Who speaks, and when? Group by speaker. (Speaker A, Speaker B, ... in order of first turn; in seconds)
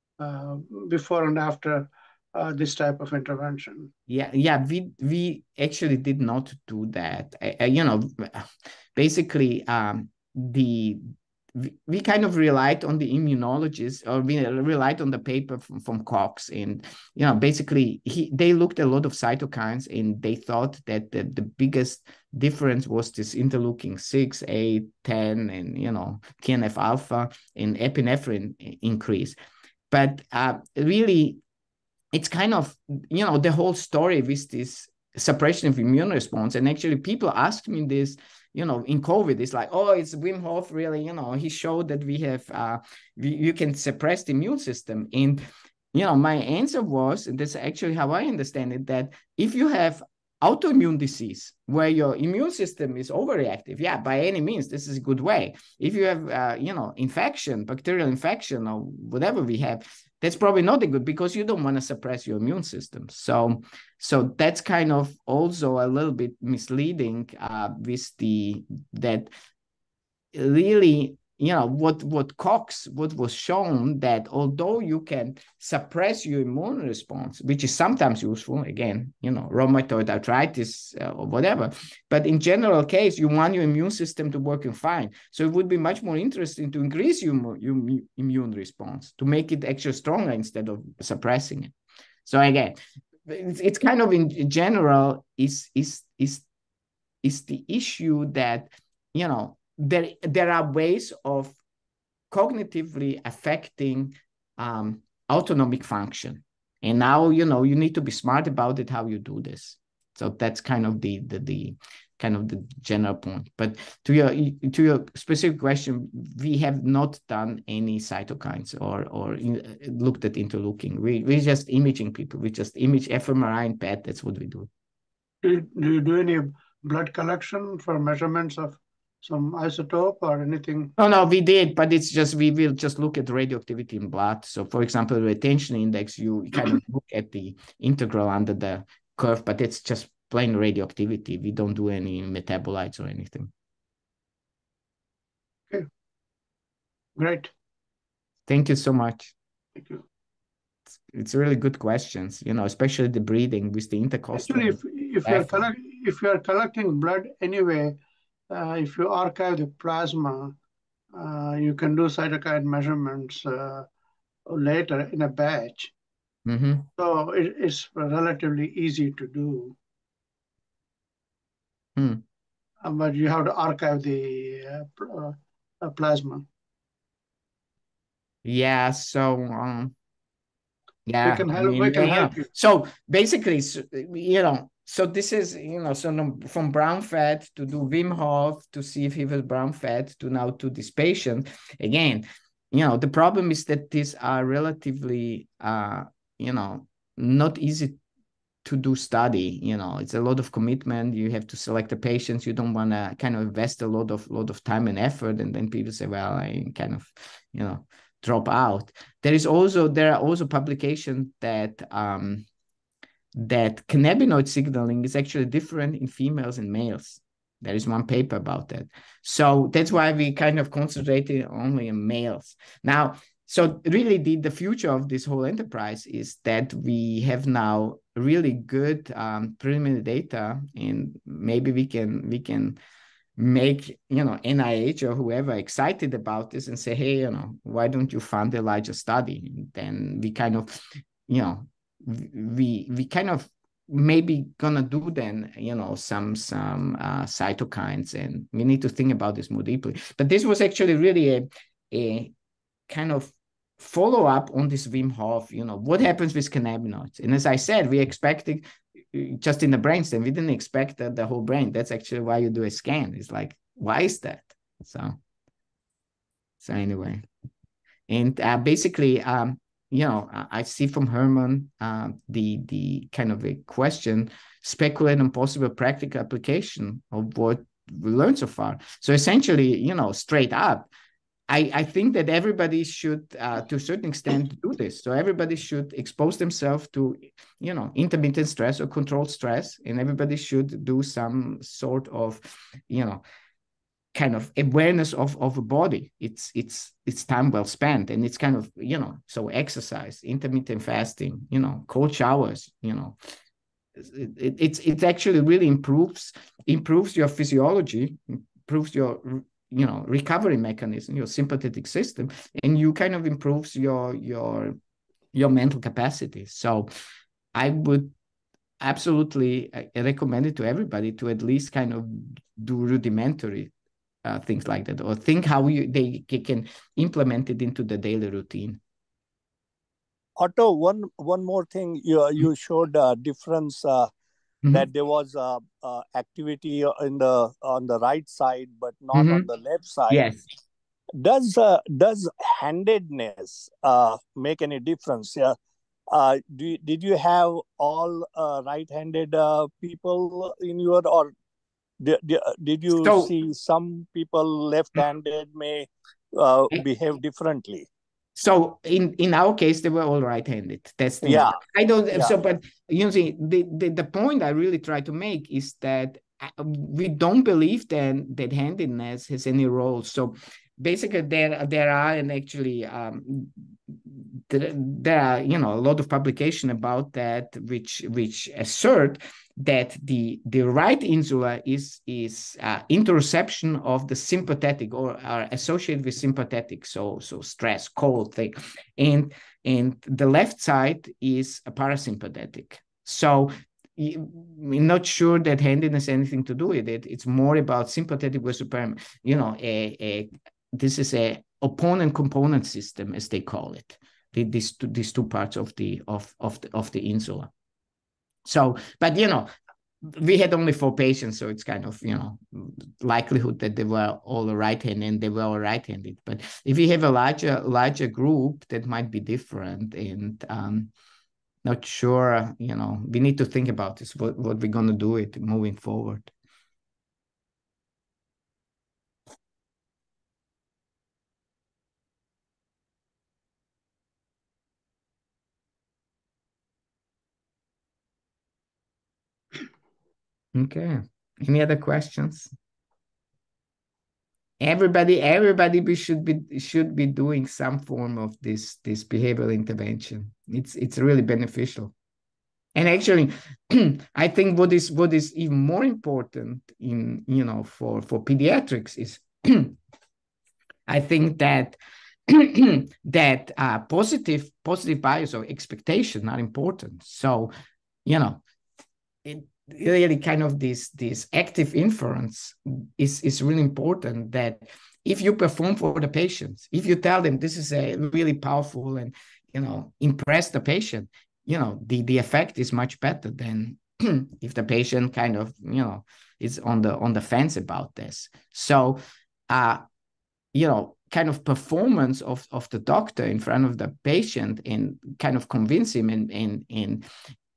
Speaker A: 0.2-3.9, 125.4-130.9, 147.2-147.5, 154.3-160.6, 161.1-163.9, 164.5-165.9, 167.0-169.8, 172.8-176.5, 181.2-182.5
Speaker B: 4.1-11.0, 11.5-29.4, 29.9-31.4, 32.1-69.3, 70.3-91.7, 92.2-96.5, 97.2-101.6, 102.3-124.7, 131.0-143.5, 148.5-149.3, 151.1-155.7, 166.4-166.8, 171.9-172.2, 178.4-179.9, 181.1-198.0, 198.6-212.4, 213.3-232.8, 233.4-240.7, 241.3-252.3, 252.9-265.2, 266.6-267.2, 268.1-280.9, 281.5-293.2, 294.1-303.2, 304.0-314.8, 315.3-316.9, 317.5-318.1, 318.8-323.7, 324.2-328.8, 339.1-339.5, 340.1-340.5, 352.9-353.3, 358.3-407.5, 408.4-409.5, 410.0-420.9, 421.6-426.3, 440.5-442.5, 444.6-451.9, 452.7-459.8, 460.9-467.5, 468.1-468.4, 469.2-489.8, 490.5-497.1
Speaker C: 330.4-334.1, 334.7-340.2, 341.2-345.6, 346.1-351.3, 352.0-357.9, 361.2-361.6